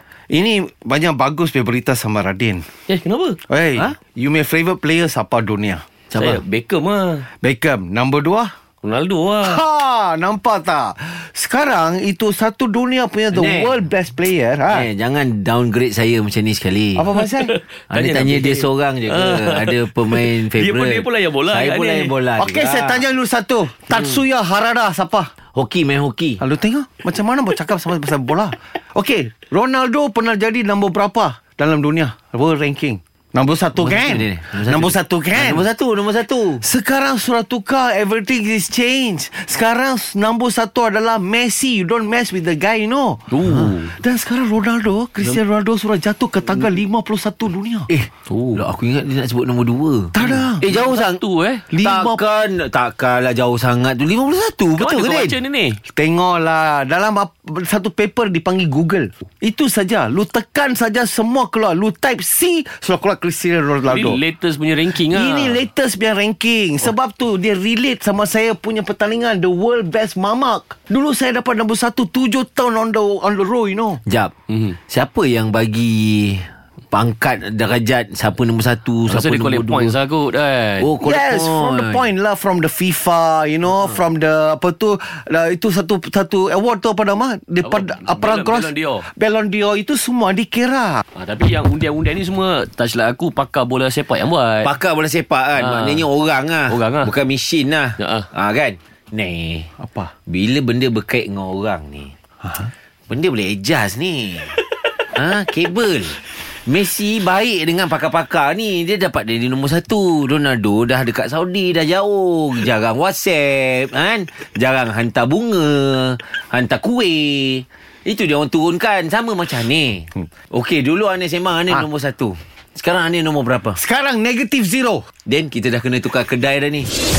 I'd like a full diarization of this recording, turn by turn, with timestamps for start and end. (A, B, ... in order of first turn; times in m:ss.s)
0:00.3-0:02.6 A
0:02.9-0:03.4 B
0:03.5-0:05.8 A
0:06.1-0:06.4 C
0:06.1-0:07.2 B
0:07.4-0:08.5 A
0:08.8-0:09.6 B
0:09.4-0:14.9 A
0:13.3-0:13.8 C
0:14.7-0:17.0 C
0:17.0-0:17.5 A
0:17.2-0:22.1 B
0:17.9-0:23.0 C
0:22.4-0:25.3 A
0:25.6-0:26.4 C
0:26.4-0:35.7 A
0:33.8-0:36.6 C
0:36.6-0:43.2 A
0:43.3-0:44.0 B
0:43.9-0:47.9 A
0:47.9-0:51.2 C
0:48.3-0:48.6 B
0:50.1-0:50.7 A
0:50.2-0:51.6 B
0:51.7-0:52.2 A
0:51.8-0:55.4 C
0:54.8-0:55.8 B
0:55.9-1:04.2 A
1:03.9-1:05.7 B
1:05.0-1:14.0 A
1:14.1-1:20.0 C
1:19.1-1:20.9 B
1:20.8-1:22.1 C
1:21.0-1:31.0 A
1:27.6-1:29.1 B
1:31.2-1:34.7 B
1:34.6-1:39.7 C
1:35.6-1:36.1 B
1:36.7-1:37.1 B
1:38.0-1:38.3 B
1:39.8-1:40.1 A
1:40.3-1:42.1 C
1:43.1-1:44.6 C
1:45.1-2:03.8 C
2:03.8-2:05.0 A
2:05.3-2:06.9 C